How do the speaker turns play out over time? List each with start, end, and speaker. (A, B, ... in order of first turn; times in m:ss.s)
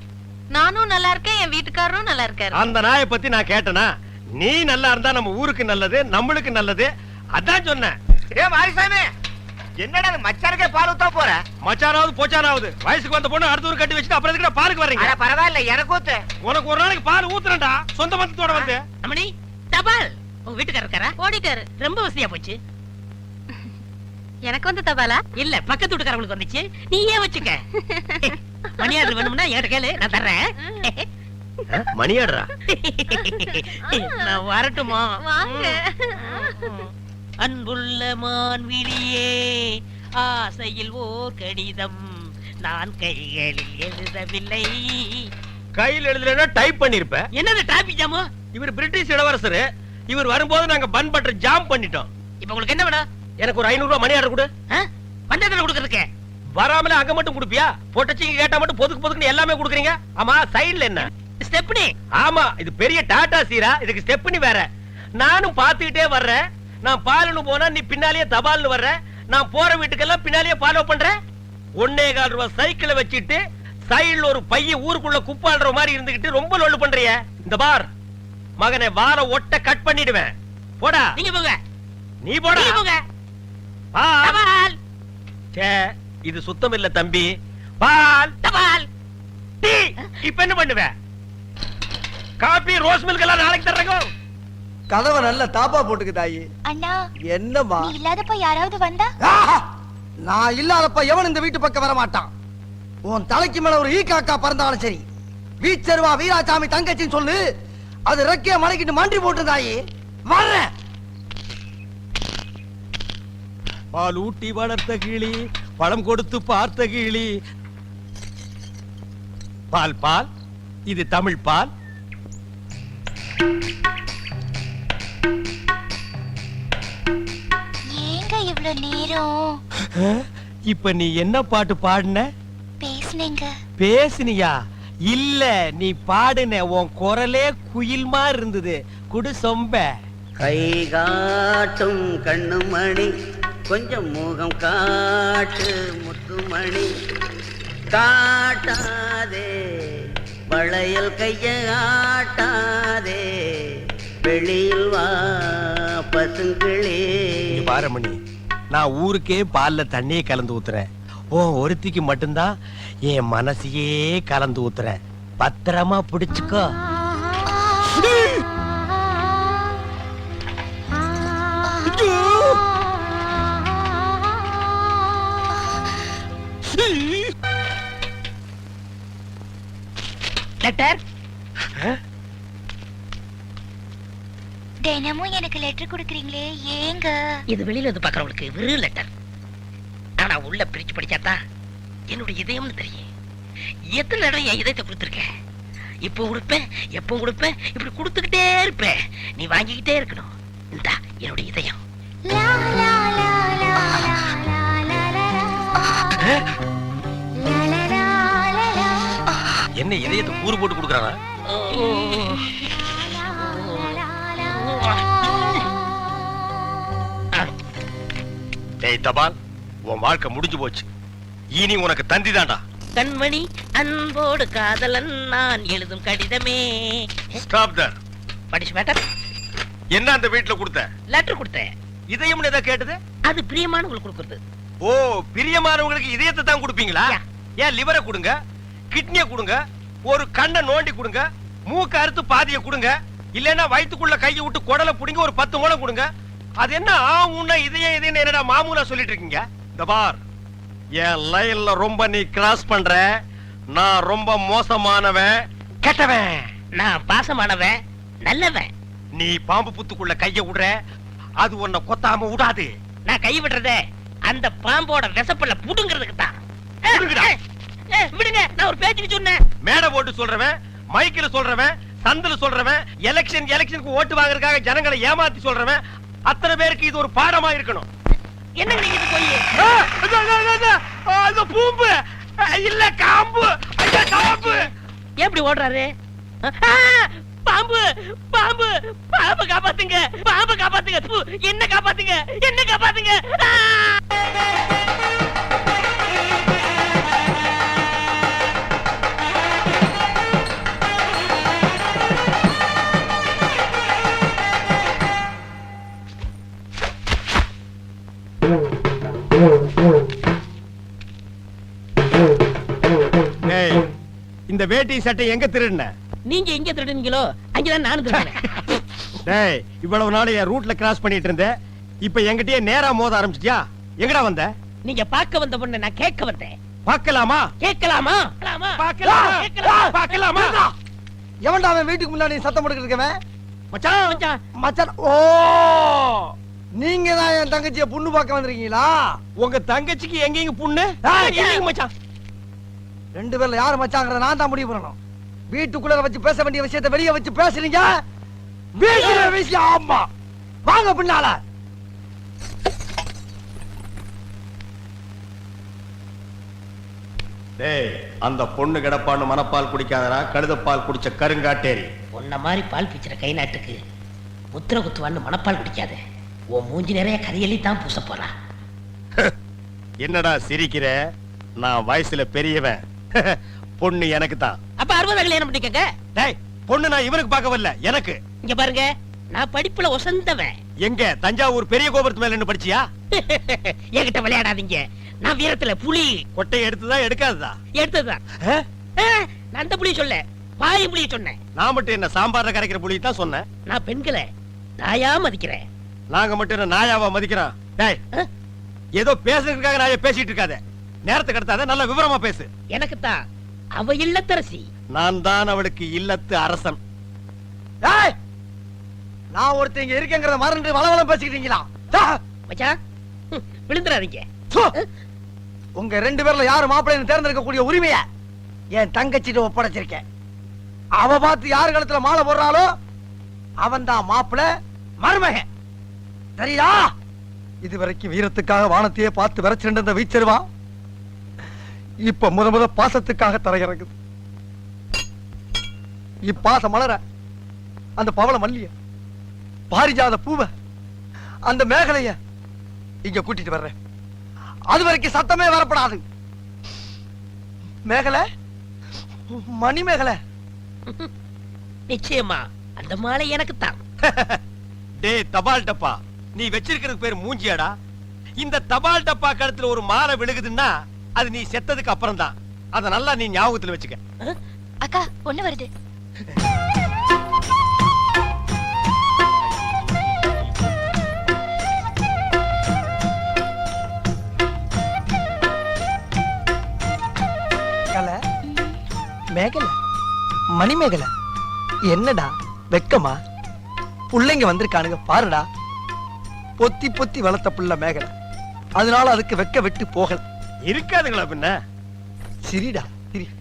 0:00.5-0:02.5 A
0:02.5-0:07.9 B
0:08.4-0:09.1 C
0:09.8-0:11.4 C
0:11.6-0:15.2 B
0:15.0-0:16.2 C
0:16.4-0:18.8 B
0:19.0-0:21.2 D
0:21.2-0:21.6 A
0:21.7-0:22.6 D
0:24.4-0:25.2 A
0:25.4-0:27.6 D
0:28.2-0:31.0 D
0:31.9-0:32.5 B
0:32.7-0:36.9 D
0:35.2-0:35.9 A
0:37.4-0:45.3 D
0:45.8-0:47.3 B
0:47.3-0:48.3 D
0:48.5-0:52.1 B
0:52.4-0:53.0 D
0:53.4-0:54.5 B
0:54.7-0:56.1 D
0:56.6-1:01.1 B
1:01.1-1:01.9 D
1:02.2-1:04.7 B
1:05.2-1:11.2 B
1:11.8-1:17.9 B
1:18.6-1:20.3 B
1:20.8-1:21.1 B
1:21.2-1:21.6 D
1:22.2-1:22.8 B
1:22.5-1:23.0 D
1:23.9-1:24.4 B
1:24.2-1:24.8 D
1:25.6-1:28.3 B
1:28.4-1:28.9 D
1:29.6-1:30.9 B
1:32.4-1:34.1 B
1:34.9-1:36.4 E
1:36.6-1:37.0 F
1:37.3-1:37.9 E
1:37.8-1:39.1 F
1:39.2-1:39.6 E
1:40.2-1:42.3 E
1:43.1-1:45.0 E
1:45.6-1:47.4 E
1:48.1-1:49.8 E
1:50.3-1:50.6 E
1:53.9-1:57.3 B
1:59.7-2:00.3 B
2:00.9-2:01.7 B
2:07.9-2:09.6 F
2:10.0-2:12.3 B
2:12.8-2:13.5 F
2:13.8-2:14.5 B
2:15.1-2:19.9 B
2:20.4-2:23.1 G
2:23.7-2:26.9 G
2:27.9-2:29.5 G
2:30.5-2:33.2 G
2:34.2-2:37.0 G
2:37.5-2:38.2 B
2:38.7-2:42.5 B
2:43.1-2:46.7 B
2:52.0-2:52.6 B
3:00.6-3:01.0 D
3:04.8-3:07.2 F
3:07.5-3:09.1 D
3:10.2-3:11.4 D
3:12.1-3:13.0 D
3:13.9-3:15.3 D
3:16.0-3:21.8 D
3:22.2-3:26.0 F
3:27.4-3:29.2 F
3:29.8-3:31.2 B
3:31.5-3:32.5 D
3:33.4-3:35.6 D
3:38.8-3:39.3 B
3:39.9-3:40.9 B
3:41.6-3:42.6 B
3:43.0-3:47.2 D
3:47.4-3:48.0 B
3:48.5-3:49.0 D
3:49.9-3:50.9 B
3:51.1-3:51.7 D
3:52.1-3:53.0 B
3:53.3-3:54.4 D
3:54.8-3:58.4 B
3:58.9-4:06.1 B
4:06.6-4:10.2 B
4:11.0-4:13.0 B
4:13.7-4:16.4 B
4:16.7-4:18.7 D
4:19.2-4:20.7 B
4:21.4-4:22.7 B
4:23.1-4:26.4 D
4:26.9-4:27.3 B
4:26.9-4:27.3 D
4:27.9-4:29.4 D
4:29.6-4:37.8 B
4:38.6-4:39.4 D
4:39.5-4:44.6 B
4:45.2-4:45.9 D
4:46.4-4:54.0 D
5:13.5-5:13.8 B
5:14.5-5:15.9 B
5:16.3-5:18.4 D
5:19.2-5:21.5 B
5:22.0-5:24.5 B
5:24.8-5:26.5 D
5:26.9-5:27.5 B
5:27.6-5:30.2 D
5:28.8-5:30.6 B
5:29.0-5:30.7 E
5:31.4-5:33.2 E
5:33.7-5:34.2 B
5:34.1-5:34.4 D
5:34.6-5:36.0 E
5:36.8-5:39.0 E
5:39.4-5:41.9 B
5:41.1-5:41.4 E
5:41.2-5:41.6 D
5:43.1-5:45.0 E
5:45.5-5:47.9 E
5:48.8-5:50.1 E
5:50.6-5:51.4 E
5:57.6-6:01.9 B
6:02.1-6:03.8 D
6:04.5-6:06.0 D
6:06.5-6:08.3 D
6:10.0-6:11.0 B
6:11.6-6:14.6 B
6:14.8-6:15.8 D
6:16.2-6:18.2 B
6:18.4-6:20.5 D
6:20.8-6:22.8 B
6:23.1-6:26.2 D
6:26.4-6:27.5 B
6:27.8-6:28.2 D
6:29.0-6:31.4 D
6:31.6-6:33.4 B
6:33.7-6:34.2 D
6:34.8-6:35.6 D
6:36.1-6:38.0 B
6:39.0-6:42.5 B
6:42.7-6:43.2 D
6:43.8-6:44.7 D
6:44.9-6:46.8 B
6:47.8-6:48.1 E
6:49.3-6:52.1 E
6:52.5-6:52.8 D
6:53.3-6:54.2 D
6:55.8-6:58.0 E
6:58.7-7:00.0 E
7:01.0-7:02.7 E
7:03.6-7:04.5 E
7:05.0-7:05.4 E
7:06.4-7:06.9 E
7:07.6-7:10.4 E
7:12.0-7:13.9 E
7:16.2-7:17.0 E
7:18.0-7:18.7 E
7:19.7-7:20.5 E
7:21.5-7:22.2 E
7:23.0-7:23.7 E
7:24.7-7:26.0 E
7:27.9-7:28.2 E
7:29.3-7:30.2 E
7:31.9-7:33.8 D
7:34.0-7:34.4 B
7:35.0-7:37.7 B
7:38.4-7:44.0 B
7:44.8-7:45.7 F
7:58.5-7:58.8 F
7:59.3-7:59.7 E
8:00.6-8:01.1 E
8:01.9-8:03.2 E
8:04.1-8:05.5 E
8:06.6-8:08.1 E
8:08.8-8:10.2 E
8:10.7-8:11.6 B
8:12.4-8:13.3 E